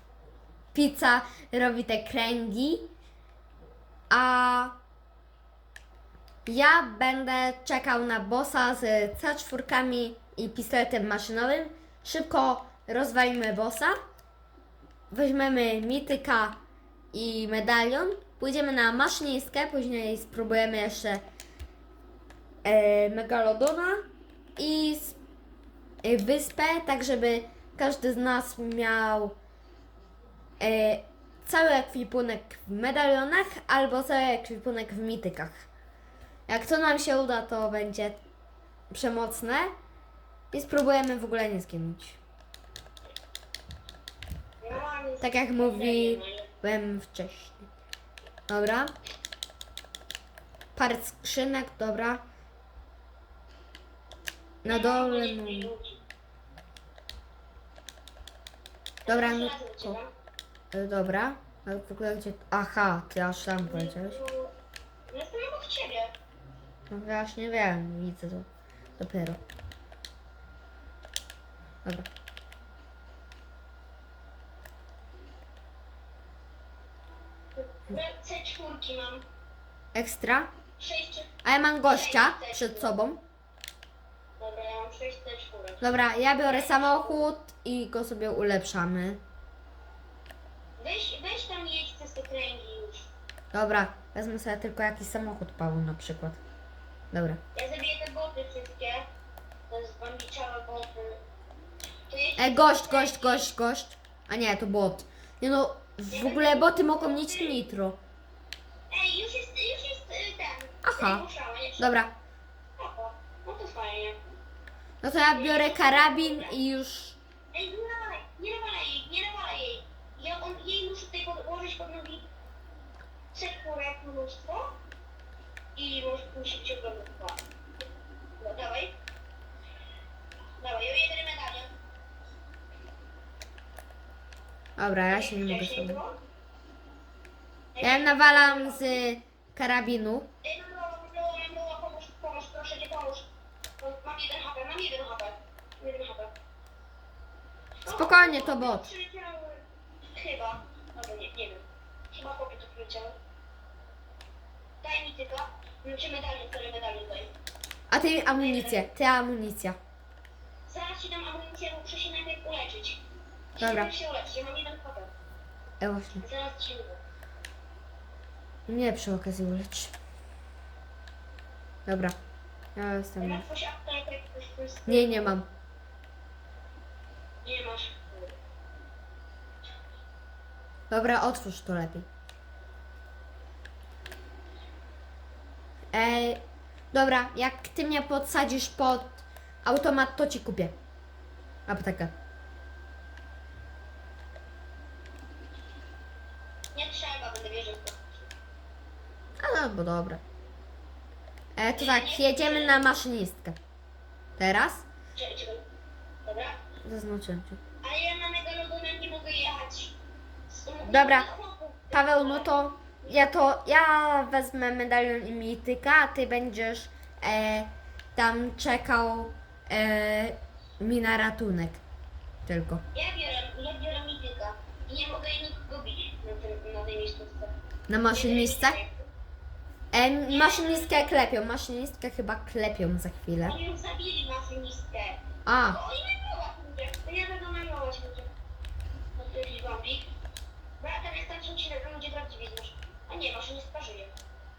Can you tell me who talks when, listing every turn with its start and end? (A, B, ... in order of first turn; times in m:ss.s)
0:00.7-0:02.9 A
0:04.1-0:04.8 A
0:06.4-0:14.0 A
0:15.1-0:16.6 A
0:17.1-0:21.2 A
0:22.6-0:25.2 A
0:26.0-0:29.4 A
0:30.6-0:35.6 A
0:36.5-0:38.2 A
0:38.9-0:39.7 A
0:40.5-0:42.2 A
0:44.6-0:46.5 B
0:45.2-0:47.7 A
0:48.5-0:48.9 A
0:50.8-0:52.2 A
0:54.6-0:55.7 A
0:54.6-0:56.0 B
0:59.0-1:00.1 B
0:59.1-1:00.0 A
1:00.7-1:04.2 A
1:03.6-1:04.5 B
1:05.1-1:06.1 B
1:06.9-1:09.4 A
1:17.6-1:19.2 B
1:19.9-1:20.5 A
1:20.8-1:21.3 B
1:21.4-1:23.2 A
1:21.8-1:22.9 B
1:24.4-1:25.9 B
1:25.8-1:29.2 A
1:26.4-1:27.2 B
1:30.8-1:33.1 B
1:33.5-1:36.4 A
1:37.1-1:37.4 A
1:37.5-1:39.1 B
1:39.7-1:41.2 B
1:42.1-1:43.5 B
1:42.4-1:48.0 A
1:46.1-1:47.7 B
1:48.9-1:51.9 B
1:50.8-1:51.2 A
1:51.8-1:52.1 A
1:52.8-1:54.2 B
1:55.0-1:57.2 A
1:55.1-1:56.6 B
1:57.5-2:02.2 B
2:03.3-2:04.7 B
2:05.7-2:07.4 B
2:08.4-2:08.9 B
2:10.6-2:11.7 B
2:14.8-2:16.0 A
2:15.1-2:16.2 B
2:17.7-2:18.9 B
2:17.8-2:20.3 A
2:20.4-2:23.3 B
2:23.8-2:26.3 B
2:27.8-2:29.6 B
2:27.9-2:28.8 A
2:30.1-2:33.2 B
2:34.8-2:37.3 B
2:37.9-2:39.8 A
2:38.3-2:38.9 B
2:40.7-2:43.0 B
2:43.6-2:45.1 B
2:43.6-2:43.9 A
2:45.8-2:46.2 A
2:46.2-2:47.0 B
2:48.7-2:49.9 A
2:51.8-2:52.2 A
2:52.8-2:53.4 A
2:53.2-2:55.4 B
2:54.9-2:55.5 A
2:57.4-2:58.4 B
3:00.9-3:02.0 A
3:05.9-3:10.7 A
3:11.7-3:12.1 A
3:16.7-3:18.3 B
3:19.4-3:20.2 A
3:21.6-3:23.6 A
3:21.8-3:22.8 B
3:24.4-3:24.8 A
3:25.2-3:25.6 B
3:26.2-3:26.6 B
3:26.8-3:27.6 A
3:27.8-3:30.0 B
3:30.5-3:32.5 B
3:30.8-3:31.3 A
3:31.9-3:41.8 A
3:33.0-3:33.3 B
3:42.4-3:42.8 A
3:42.9-3:47.5 B
3:47.9-3:48.8 A
3:48.1-3:49.1 B
3:49.9-3:53.6 A
3:50.3-3:51.1 B
3:53.4-3:58.3 B
3:55.4-3:55.8 A
3:59.2-4:00.1 B
4:00.8-4:04.1 B